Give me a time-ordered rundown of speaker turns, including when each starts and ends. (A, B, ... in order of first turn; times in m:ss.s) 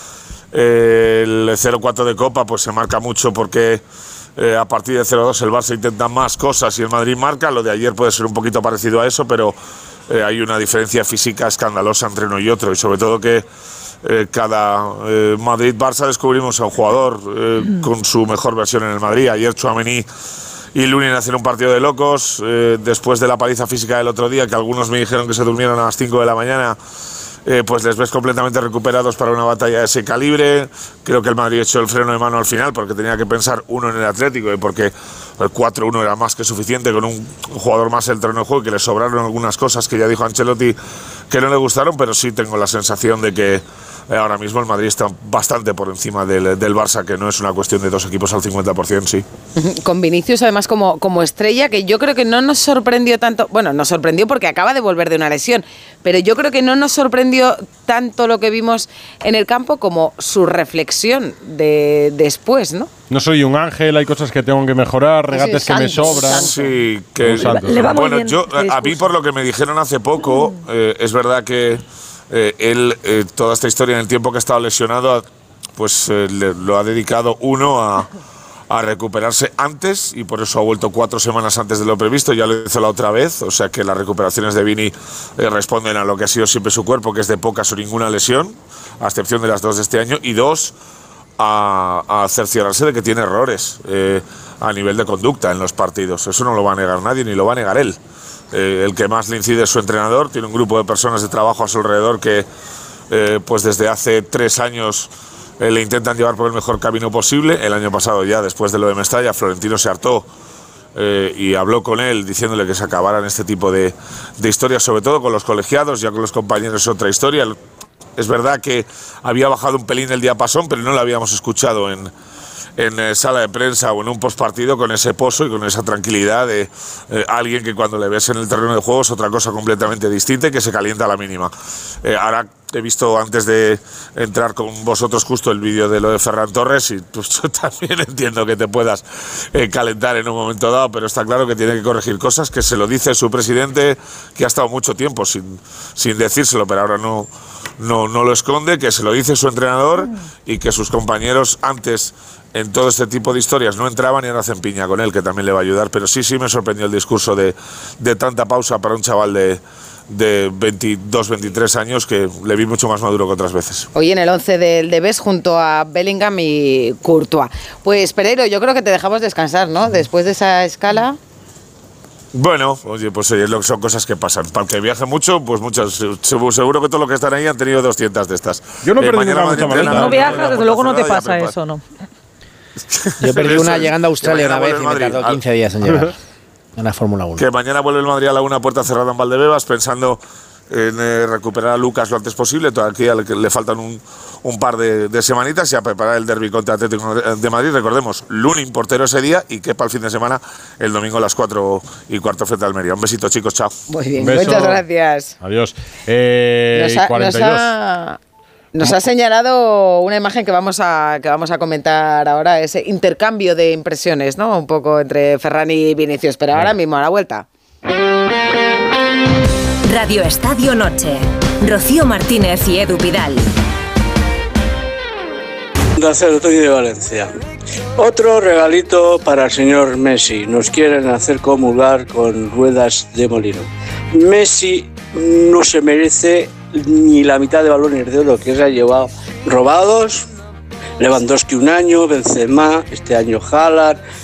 0:00.5-0:03.8 A
0:04.4-0:09.6 A
0:10.1-0:13.4 A
0:14.0-0:20.1 A
0:20.8-0:26.8 A
0:27.5-0:40.8 A
0:41.3-0:49.3 A
0:49.6-1:02.9 B
1:03.1-1:06.6 C
1:05.3-1:06.8 B
1:06.4-1:15.2 A
1:07.2-1:07.9 C
1:07.5-1:09.1 D
1:15.8-1:18.1 A
1:18.7-1:30.8 A
1:31.4-1:38.0 A
1:38.5-1:42.5 A
1:43.1-1:50.3 A
1:51.0-1:57.6 A
1:58.2-2:02.1 A
2:02.8-2:11.5 A
2:12.0-2:27.3 A
2:27.8-2:43.9 A
2:44.0-2:51.2 B
2:52.3-3:01.6 A
2:58.8-3:00.5 C
2:59.7-3:01.8 D
3:02.9-3:05.4 A
3:03.2-3:06.2 E
3:06.8-3:07.4 E
3:07.4-3:10.2 A
3:10.7-3:23.8 A
3:23.9-3:25.4 B
3:24.2-3:24.8 C
3:25.4-3:27.7 C
3:26.7-3:28.2 B
3:28.7-3:37.4 B
3:39.9-3:43.5 F
3:46.0-3:47.3 G
3:48.0-4:00.3 G
4:01.0-4:04.0 G